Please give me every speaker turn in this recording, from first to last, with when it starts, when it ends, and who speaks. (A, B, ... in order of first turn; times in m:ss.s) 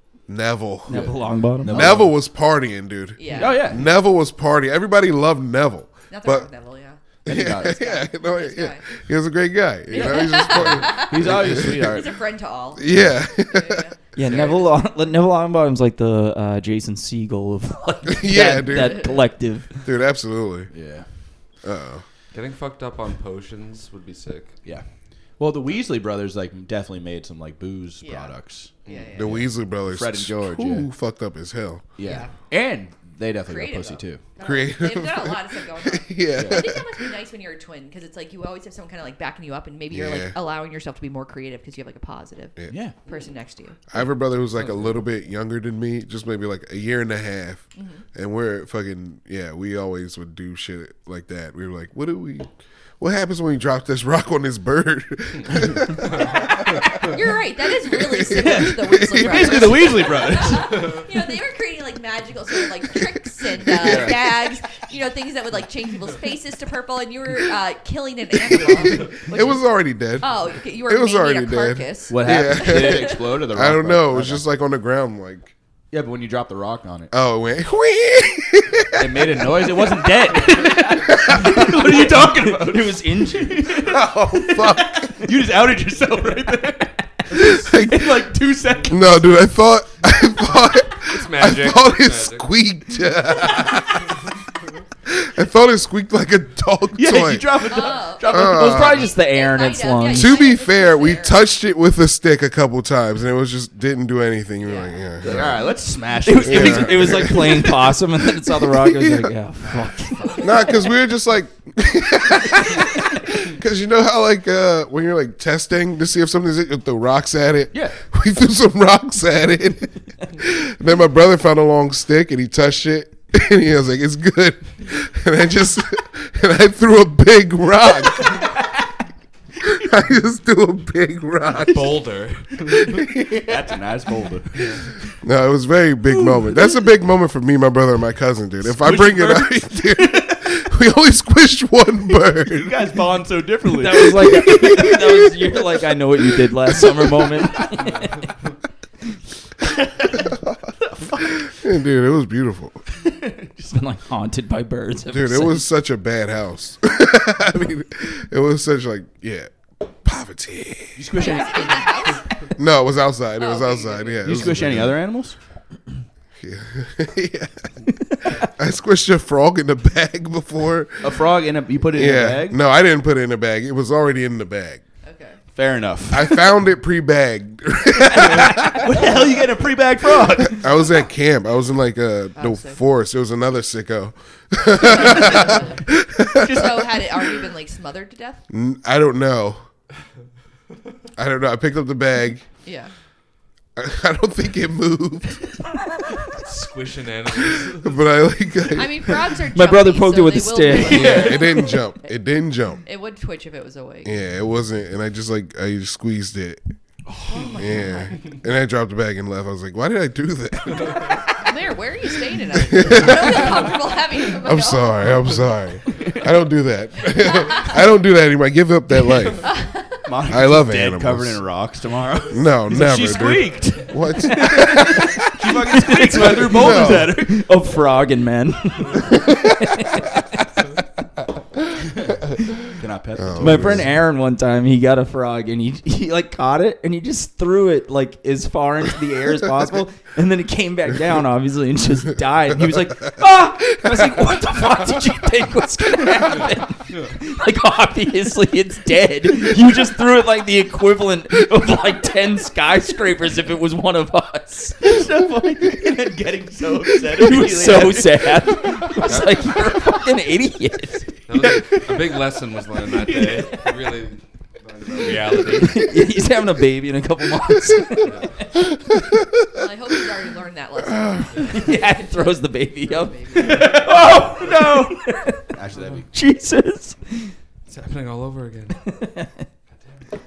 0:00.3-0:01.1 A
0:00.9-0:02.0 B
0:00.9-0:02.1 C
0:01.6-0:06.5 A
0:03.2-0:03.8 D
0:03.4-0:03.9 C
0:06.1-0:08.9 D
0:07.3-0:12.0 A
0:07.3-0:07.9 C
0:09.9-0:14.5 D
0:10.0-0:10.3 B
0:10.5-0:12.2 C
0:12.8-0:13.9 A
0:14.2-0:19.8 B
0:14.2-0:14.6 E
0:18.1-0:19.2 A
0:18.7-0:19.1 D
0:19.8-0:20.7 A
0:20.7-0:21.1 C
0:21.6-0:22.0 A
0:22.3-0:24.6 E
0:25.4-0:30.9 C
0:28.0-0:28.3 D
0:28.9-0:29.2 E
0:28.9-0:29.4 D
0:29.2-0:31.8 A
0:32.0-0:34.2 C
0:32.0-0:32.3 D
0:33.5-0:42.6 D
0:34.4-0:37.1 A
0:36.3-0:36.7 C
0:39.9-0:40.3 A
0:42.7-0:43.0 C
0:43.1-0:43.8 D
0:43.9-1:00.1 A
0:44.5-0:45.0 E
0:47.8-0:48.0 D
0:56.8-1:09.6 D
0:58.3-1:00.9 C
1:00.8-1:01.1 E
1:03.6-1:04.1 A
1:03.8-1:04.2 C
1:08.5-1:15.5 A
1:10.2-1:13.4 D
1:12.1-1:14.4 C
1:15.9-1:17.1 C
1:17.1-1:20.3 A
1:19.0-1:29.4 C
1:21.1-1:22.0 A
1:21.4-1:23.8 B
1:23.8-1:25.1 A
1:27.0-1:28.0 B
1:27.3-1:28.1 A
1:28.8-1:34.3 A
1:31.0-1:32.5 E
1:35.1-1:39.1 A
1:37.0-1:39.0 C
1:37.7-1:41.4 D
1:38.2-1:40.4 B
1:40.1-1:45.6 A
1:44.6-1:45.1 D
1:45.2-1:47.8 C
1:46.2-1:50.7 B
1:46.4-1:47.9 A
1:48.6-1:49.3 A
1:50.4-2:08.5 A
2:09.6-2:12.0 A
2:11.5-2:13.1 E
2:12.9-2:13.5 A
2:13.2-2:14.9 C
2:15.2-2:22.9 A
2:16.1-2:16.8 C
2:18.6-2:20.6 C
2:22.5-2:25.3 C
2:23.7-2:28.1 B
2:27.9-2:28.3 E
2:29.7-2:31.5 C
2:31.4-2:32.8 A
2:33.6-2:35.6 B
2:35.1-2:39.5 A
2:40.0-2:41.0 A
2:41.0-2:42.1 C
2:41.1-2:42.3 D
2:42.6-2:45.0 A
2:43.4-2:44.5 D
2:44.2-2:45.4 C
2:46.4-2:47.7 A
2:48.3-2:51.2 A
2:51.0-2:52.6 C
2:51.9-2:54.8 A
2:55.0-2:55.4 D
2:55.5-2:56.5 C
2:56.1-2:59.1 A
2:58.0-3:00.7 C
3:00.4-3:06.7 A
3:02.4-3:02.8 D
3:04.8-3:08.4 D
3:08.5-3:09.7 A
3:11.2-3:12.4 A
3:12.6-3:12.9 D
3:13.8-3:15.6 A
3:16.3-3:18.0 E
3:17.5-3:19.2 A
3:18.7-3:21.8 D
3:19.4-3:21.3 B
3:20.8-3:22.8 A
3:22.8-3:24.2 D
3:24.0-3:26.6 A
3:27.3-3:28.2 D
3:27.6-3:31.2 A
3:31.3-3:35.2 D
3:32.5-3:33.7 A
3:34.4-3:39.5 A
3:37.1-3:37.8 D
3:39.4-3:40.0 D
3:40.0-3:47.4 C
3:40.3-3:41.4 A
3:42.3-3:45.3 A
3:44.3-3:50.5 B
3:46.4-3:47.2 A
3:52.8-3:53.9 C
3:53.2-3:53.9 A
3:53.4-4:14.9 B
4:14.8-4:18.9 C
4:17.0-4:21.2 B
4:19.1-4:19.4 E
4:21.3-4:25.8 E
4:23.0-4:23.7 C
4:24.9-4:25.7 C
4:25.6-4:28.6 B
4:28.0-4:28.3 E
4:29.5-4:33.9 D
4:31.4-4:35.5 B
4:33.4-4:34.9 C
4:35.5-4:36.1 C
4:35.8-4:36.0 E
4:36.1-4:37.3 B
4:37.7-4:38.8 E
4:38.9-4:39.4 B